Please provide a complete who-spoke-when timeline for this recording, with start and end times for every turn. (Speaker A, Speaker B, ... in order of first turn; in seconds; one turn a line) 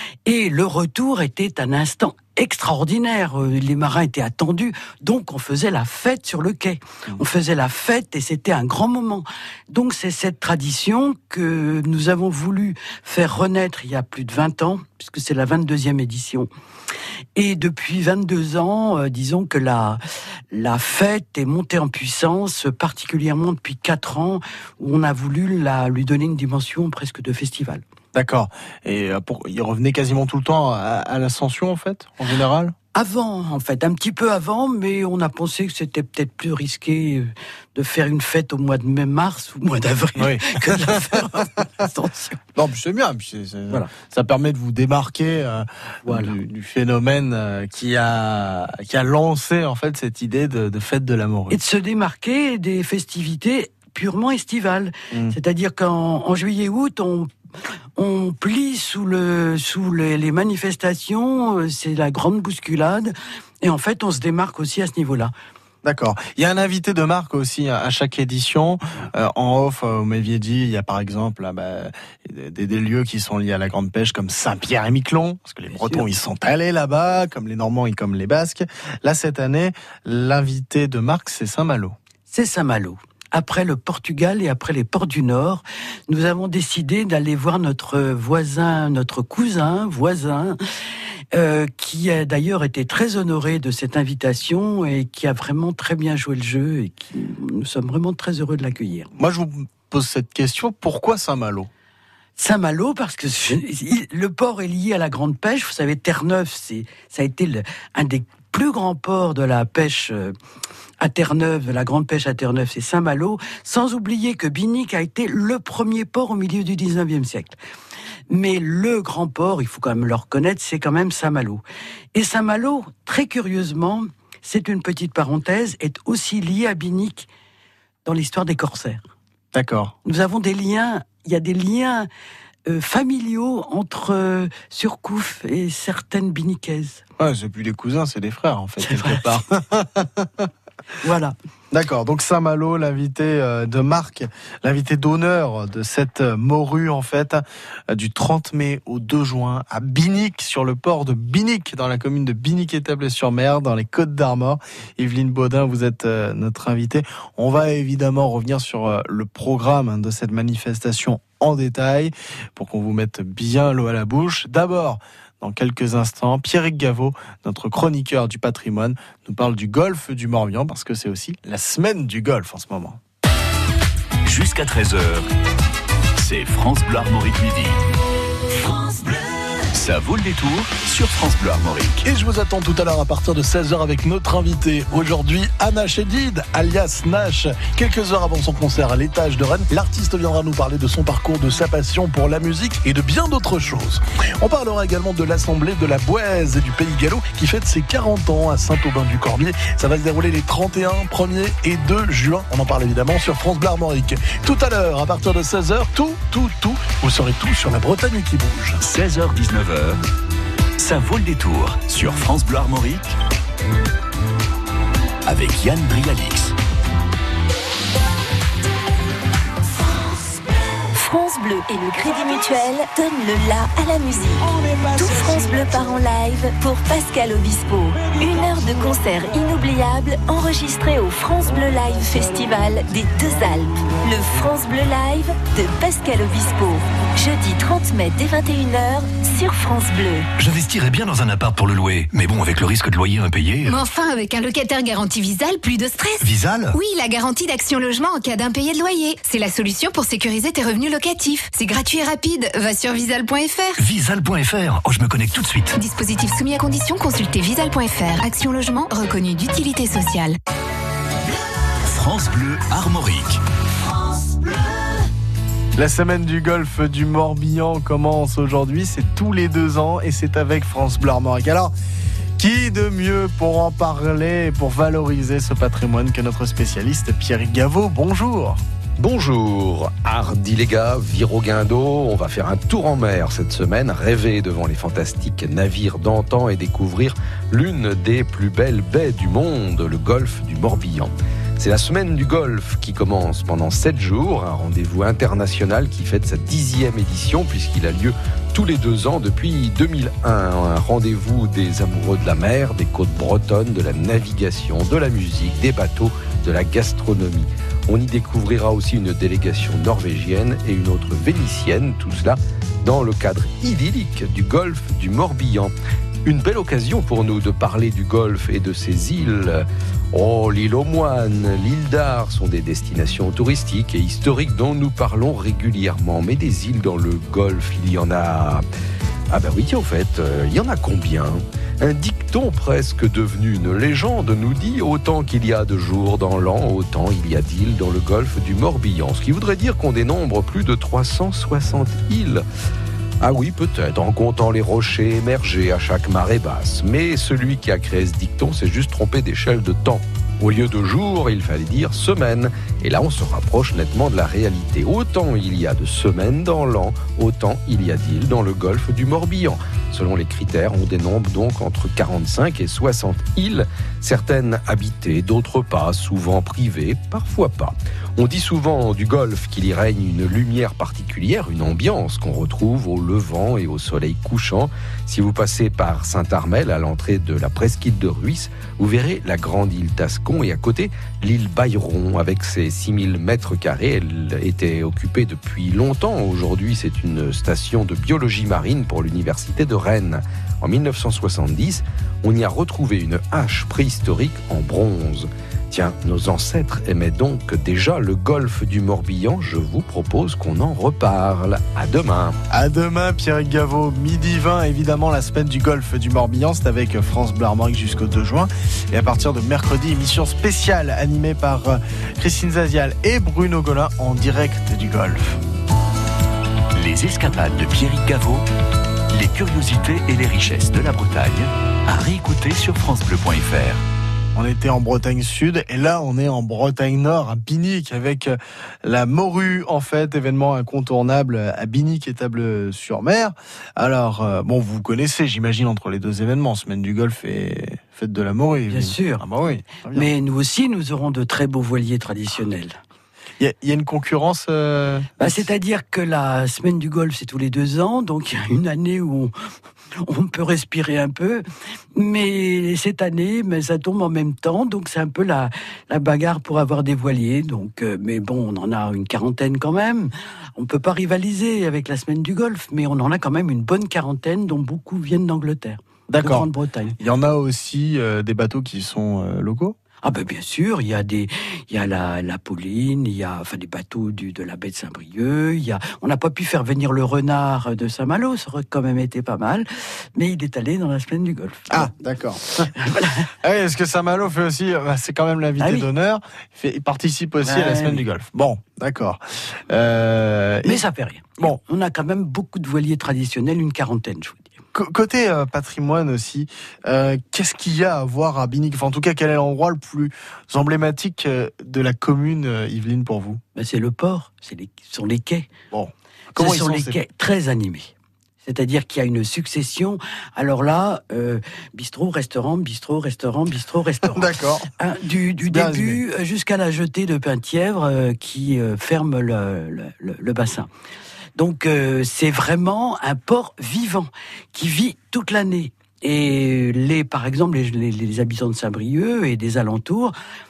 Speaker A: 0.2-16.5
Speaker A: 17.4-20.0
Speaker A: 20.5-27.8
Speaker B: 28.1-32.7
Speaker A: 32.9-42.4
Speaker B: 40.2-41.5
Speaker B: 42.5-51.6
Speaker A: 46.0-46.3
Speaker A: 51.5-57.3
Speaker A: 58.0-65.3
Speaker B: 65.8-82.0
Speaker A: 75.7-76.1
Speaker A: 82.3-90.6
Speaker A: 91.3-99.1
Speaker B: 99.2-101.7
Speaker A: 102.4-110.3
Speaker A: 111.0-117.6
Speaker A: 118.3-121.6
Speaker A: 122.1-127.3
Speaker A: 128.0-129.1
Speaker B: 129.5-129.9
Speaker A: 130.0-132.1
Speaker A: 132.7-137.0
Speaker B: 137.2-140.5
Speaker A: 138.8-139.3
Speaker A: 141.0-141.3
Speaker B: 141.7-173.0
Speaker C: 174.2-175.3
Speaker C: 176.2-177.8
Speaker C: 178.9-179.2
Speaker C: 179.7-182.0
Speaker D: 182.0-208.8
Speaker C: 208.8-210.0
Speaker C: 210.8-213.2
Speaker C: 215.2-216.5
Speaker E: 220.9-240.3
Speaker F: 240.4-243.8
Speaker G: 243.6-253.8
Speaker F: 246.2-246.8
Speaker F: 253.8-255.8
Speaker G: 255.7-260.4
Speaker C: 261.8-263.4
Speaker B: 265.7-271.7
Speaker B: 272.4-278.6
Speaker H: 279.0-315.7
Speaker H: 316.2-328.6
Speaker H: 329.3-342.4
Speaker H: 343.2-402.4
Speaker B: 402.5-415.4
Speaker C: 416.7-418.4
Speaker C: 419.1-423.8
Speaker B: 424.3-440.1
Speaker A: 438.7-439.2
Speaker A: 439.9-442.8
Speaker B: 443.4-445.5
Speaker A: 445.2-449.3
Speaker A: 450.0-466.9
Speaker B: 466.1-469.8
Speaker A: 470.0-481.9
Speaker B: 481.7-482.7
Speaker A: 482.8-483.3
Speaker B: 483.4-490.8
Speaker A: 485.6-485.9
Speaker A: 487.4-488.0
Speaker A: 490.6-494.6
Speaker B: 494.7-503.4
Speaker A: 503.5-505.5
Speaker B: 505.7-507.0
Speaker A: 506.4-507.9
Speaker A: 508.4-520.7
Speaker B: 514.1-514.7
Speaker B: 515.4-516.0
Speaker A: 521.4-530.1